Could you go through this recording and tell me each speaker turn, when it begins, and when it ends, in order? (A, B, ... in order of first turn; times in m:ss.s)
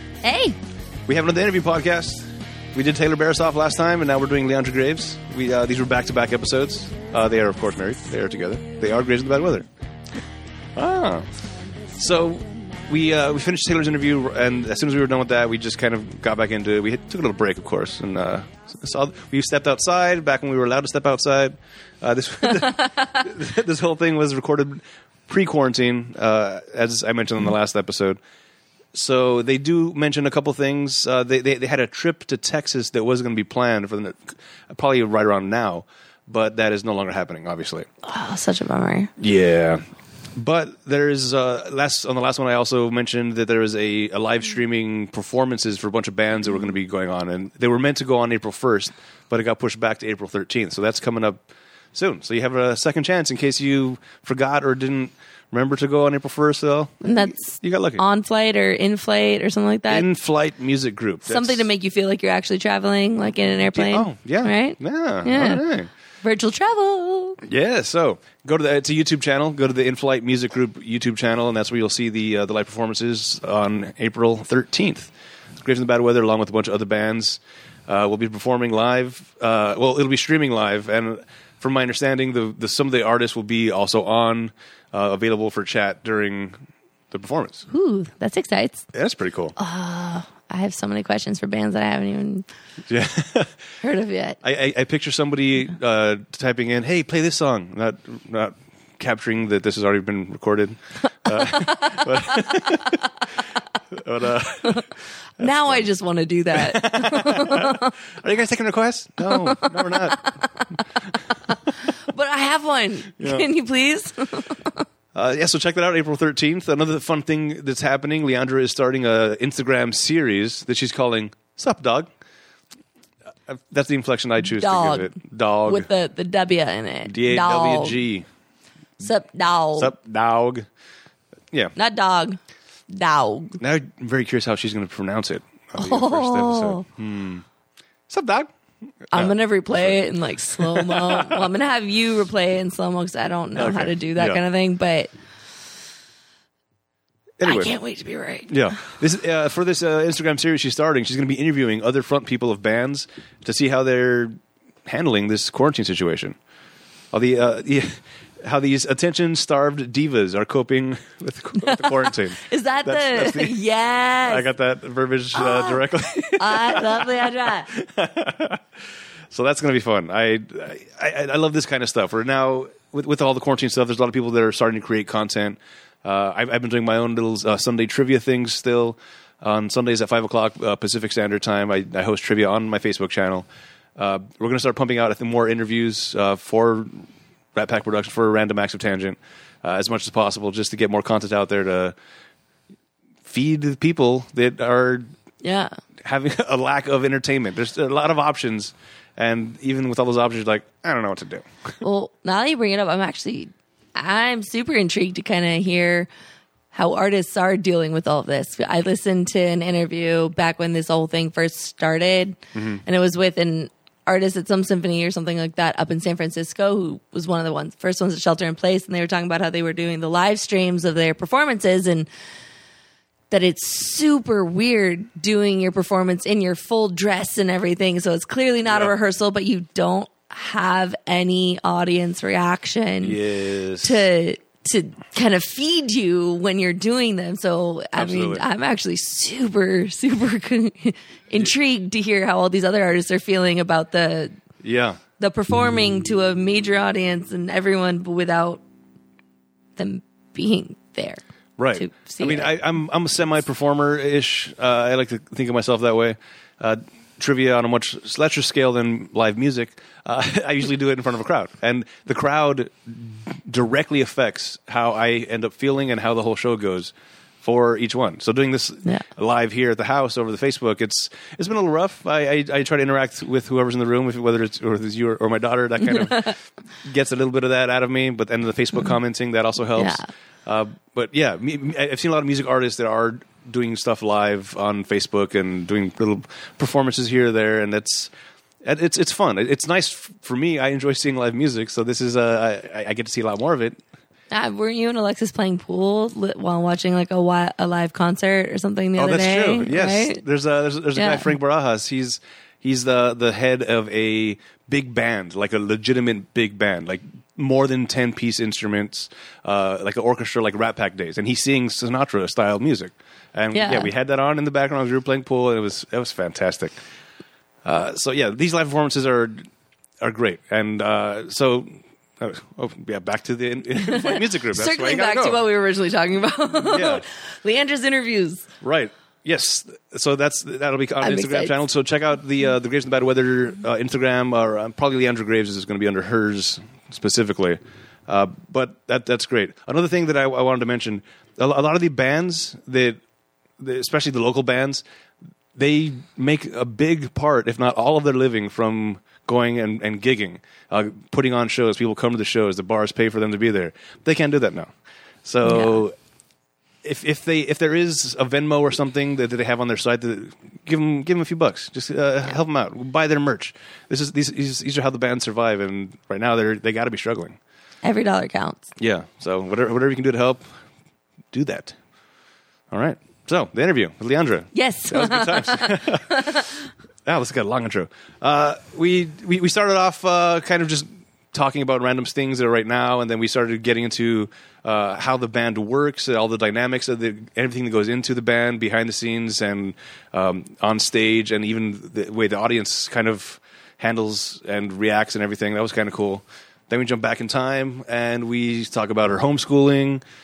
0:00.2-0:00.6 A
0:01.1-0:09.6 B
0:10.8-0:11.3 B
0:12.0-0:28.2 B
0:28.9-0:37.9 B
0:38.0-0:39.1 A
0:39.2-0:39.8 B
0:40.4-0:51.4 B
0:51.9-0:58.0 B
0:57.0-1:00.0 A
0:59.9-1:01.7 B
1:01.3-1:05.6 A
1:03.7-1:05.9 B
1:06.2-1:07.4 A
1:07.4-1:26.6 B
1:27.1-1:27.6 B
1:27.7-1:28.8 A
1:28.9-1:29.5 B
1:29.6-1:32.4 A
1:32.9-1:33.5 B
1:33.8-1:34.4 A
1:34.4-1:43.0 B
1:41.3-1:42.0 A
1:43.9-1:44.9 B
1:45.4-1:45.9 B
1:45.4-1:47.9 A
1:46.5-1:50.4 B
1:49.2-1:50.0 A
1:52.1-1:54.8 A
1:53.2-1:53.5 B
1:55.1-2:02.1 B
2:03.5-2:05.9 B
2:04.4-2:05.1 A
2:05.6-2:08.0 A
2:07.0-2:08.2 B
2:09.0-2:09.9 A
2:09.7-2:10.6 B
2:11.8-2:12.4 A
2:12.9-2:13.6 A
2:13.6-2:17.4 B
2:15.8-2:16.8 A
2:18.1-2:18.5 B
2:19.1-2:20.0 B
2:19.1-2:25.1 A
2:20.6-2:21.4 B
2:23.5-2:24.4 B
2:27.4-2:27.7 B
2:27.4-2:28.6 A
2:28.5-2:36.3 B
2:37.1-2:43.6 B
2:41.6-2:44.5 A
2:44.2-2:48.6 B
2:45.3-2:45.8 A
2:46.4-2:47.7 A
2:49.3-3:03.4 B
3:04.0-3:07.0 B
3:07.5-3:11.9 B
3:13.2-3:15.1 B
3:15.4-3:15.8 A
3:16.0-3:21.8 B
3:21.8-3:26.1 A
3:26.7-3:42.1 A
3:32.5-3:32.8 B
3:43.3-3:53.2 A
3:48.6-3:48.9 B
3:53.0-3:54.1 B
3:53.8-4:04.3 A
3:57.9-3:58.4 B
4:04.6-4:05.0 B
4:05.2-4:08.6 A
4:09.8-4:11.2 A
4:11.6-4:48.1 B
4:11.7-4:12.6 A
4:35.8-4:36.3 A
4:39.7-4:40.0 A
4:48.6-4:53.8 B
4:54.3-5:00.2 A
4:59.0-5:16.7 B
5:00.9-5:01.3 A
5:13.5-5:13.9 A
5:17.6-5:19.4 B
5:20.0-5:25.4 B
5:23.8-5:28.4 A
5:26.6-5:27.0 B
5:28.6-5:43.0 B
5:31.0-5:31.6 A
5:43.6-5:44.8 B
5:45.6-5:54.7 B
5:55.2-5:55.9 B
5:55.4-5:55.8 A
5:56.8-6:07.4 B
6:07.8-6:08.7 A
6:08.8-6:10.4 B
6:11.3-6:11.8 B
6:12.7-6:16.4 B
6:14.5-6:16.5 A
6:17.0-6:40.0 B